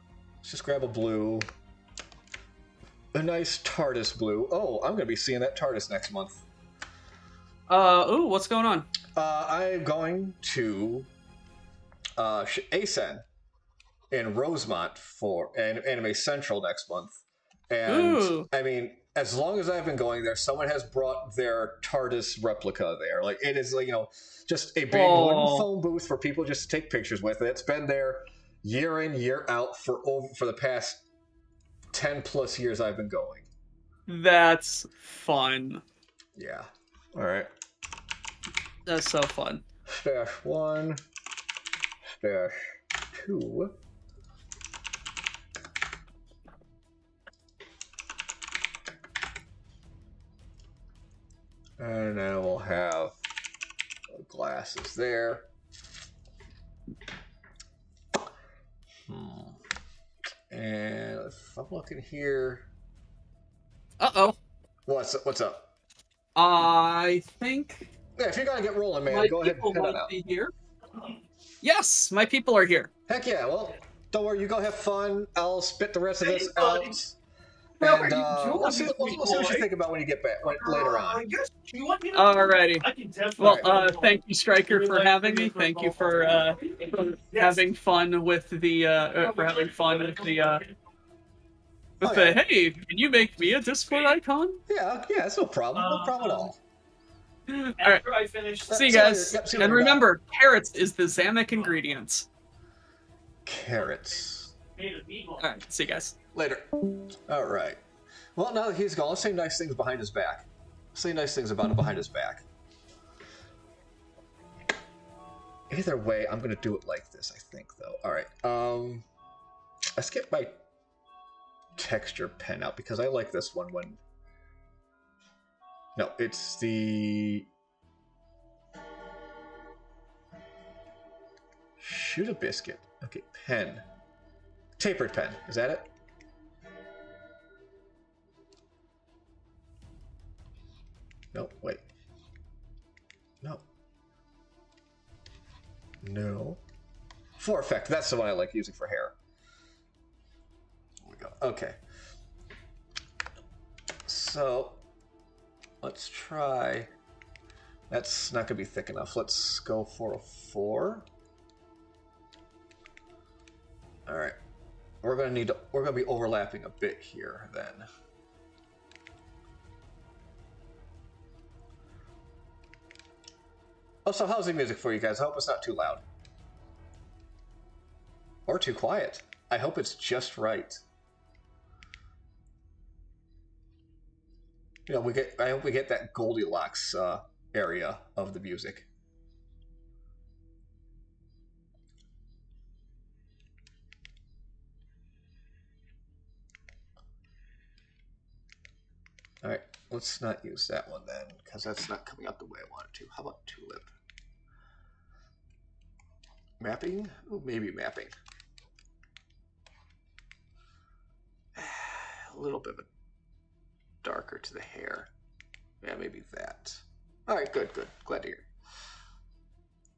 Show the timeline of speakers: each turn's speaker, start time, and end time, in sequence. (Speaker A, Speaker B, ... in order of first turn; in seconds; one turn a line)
Speaker A: 0.4-1.5
Speaker A: 3.1-6.4
Speaker B: 7.7-8.9
Speaker A: 9.1-11.1
Speaker A: 12.2-13.2
Speaker A: 14.1-31.0
Speaker B: 17.9-18.5
Speaker B: 24.9-25.7
Speaker A: 31.9-33.5
Speaker B: 34.1-35.8
Speaker A: 36.4-37.5
Speaker B: 38.9-39.6
Speaker A: 39.9-41.0
Speaker A: 42.1-43.8
Speaker A: 51.8-53.1
Speaker A: 54.1-55.5
Speaker A: 59.0-59.6
Speaker A: 60.5-62.7
Speaker B: 64.0-64.4
Speaker A: 64.9-65.7
Speaker B: 66.4-67.9
Speaker A: 68.2-70.1
Speaker B: 69.1-70.5
Speaker B: 71.6-72.9
Speaker A: 73.1-77.2
Speaker C: 76.4-76.9
Speaker A: 77.8-81.3
Speaker B: 77.8-79.6
Speaker C: 78.0-79.6
Speaker C: 80.5-87.6
Speaker B: 82.1-90.7
Speaker A: 83.4-83.7
Speaker C: 89.2-90.5
Speaker B: 92.0-94.6
Speaker A: 92.0-92.4
Speaker A: 94.7-96.6
Speaker C: 95.8-96.5
Speaker B: 97.5-98.1
Speaker C: 97.8-98.8
Speaker B: 98.7-102.3
Speaker A: 98.7-100.0
Speaker A: 103.4-104.5
Speaker C: 104.8-105.4
Speaker B: 105.4-106.2
Speaker A: 106.3-106.7
Speaker A: 107.3-107.8
Speaker A: 108.3-112.4
Speaker A: 115.7-119.1
Speaker A: 119.9-120.6
Speaker A: 121.8-124.0
Speaker A: 125.9-127.5
Speaker A: 131.8-133.8
Speaker A: 134.8-135.9
Speaker A: 141.3-141.8
Speaker A: 146.0-146.6
Speaker A: 147.4-149.1
Speaker A: 151.0-151.8
Speaker A: 154.1-154.8
Speaker A: 155.8-156.9
Speaker A: 157.9-161.1
Speaker A: 164.1-164.4
Speaker A: 165.0-167.9
Speaker A: 174.1-176.0
Speaker A: 178.5-180.8
Speaker A: 184.9-188.9
Speaker A: 199.4-203.9
Speaker A: 206.6-208.1
Speaker A: 211.6-212.9
Speaker A: 214.0-215.1
Speaker A: 215.8-218.5